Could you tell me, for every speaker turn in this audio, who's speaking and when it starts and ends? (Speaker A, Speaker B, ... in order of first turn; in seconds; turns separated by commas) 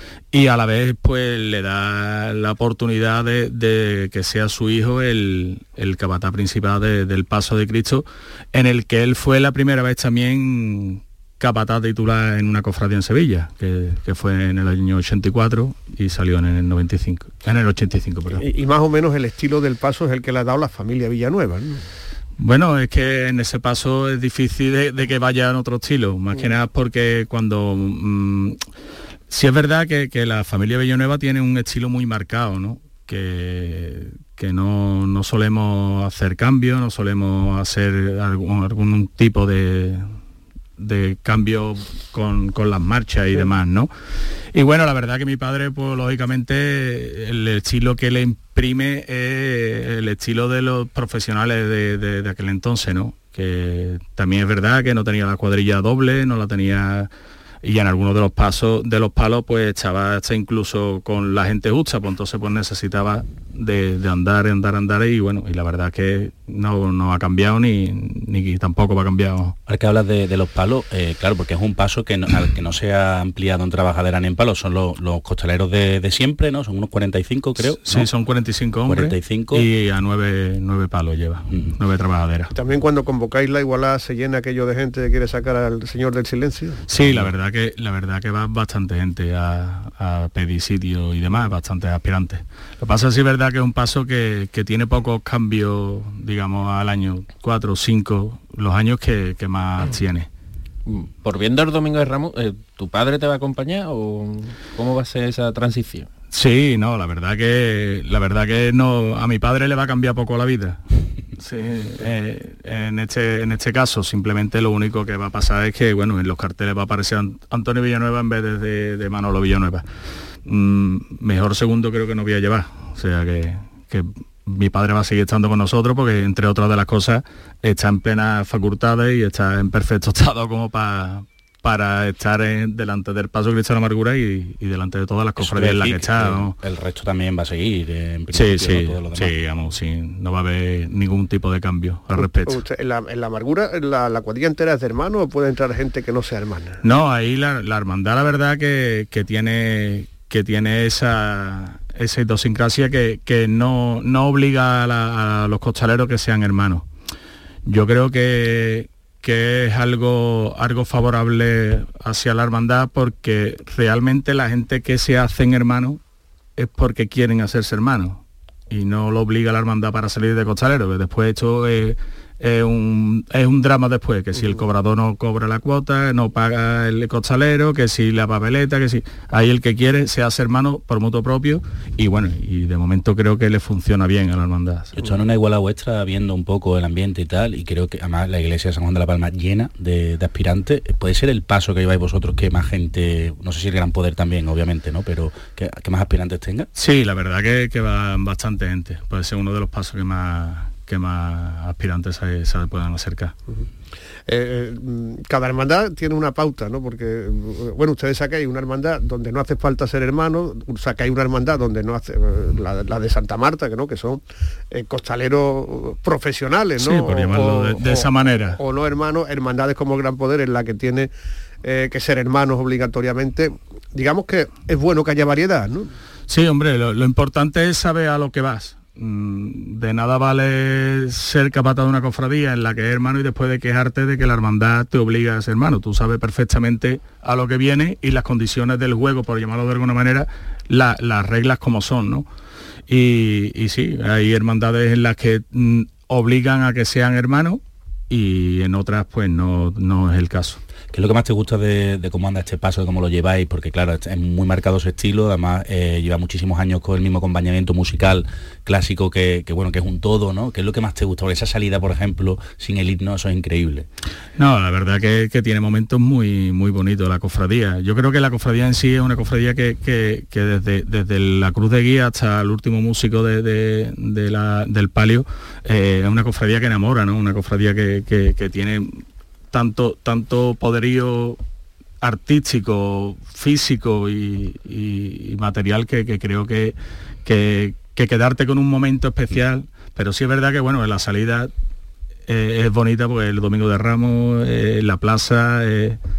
Speaker A: 0.3-18.4, Speaker B: 18.3-21.8, Speaker A: 22.4-28.7, Speaker A: 29.3-40.2, Speaker A: 40.8-43.9, Speaker A: 44.5-57.1, Speaker A: 57.6-69.6, Speaker C: 69.7-78.1, Speaker A: 77.6-82.5, Speaker C: 78.8-79.7, Speaker C: 81.5-81.8, Speaker B: 82.5-86.8, Speaker A: 86.9-100.3, Speaker C: 86.9-87.3, Speaker D: 100.9-106.1, Speaker A: 106.3-110.8, Speaker A: 111.4-119.9, Speaker A: 120.4-136.6, Speaker C: 135.4-139.3, Speaker A: 138.3-142.6, Speaker B: 142.2-146.8, Speaker A: 146.8-156.9, Speaker A: 157.7-166.0, Speaker A: 166.6-185.0, Speaker C: 185.0-196.7, Speaker A: 196.8-203.3, Speaker B: 204.3-221.1, Speaker A: 216.8-218.6, Speaker B: 221.6-225.9, Speaker A: 226.3-242.3, Speaker A: 242.9-250.6, Speaker C: 250.9-263.9, Speaker A: 264.4-281.4, Speaker A: 282.0-291.5, Speaker A: 292.3-296.0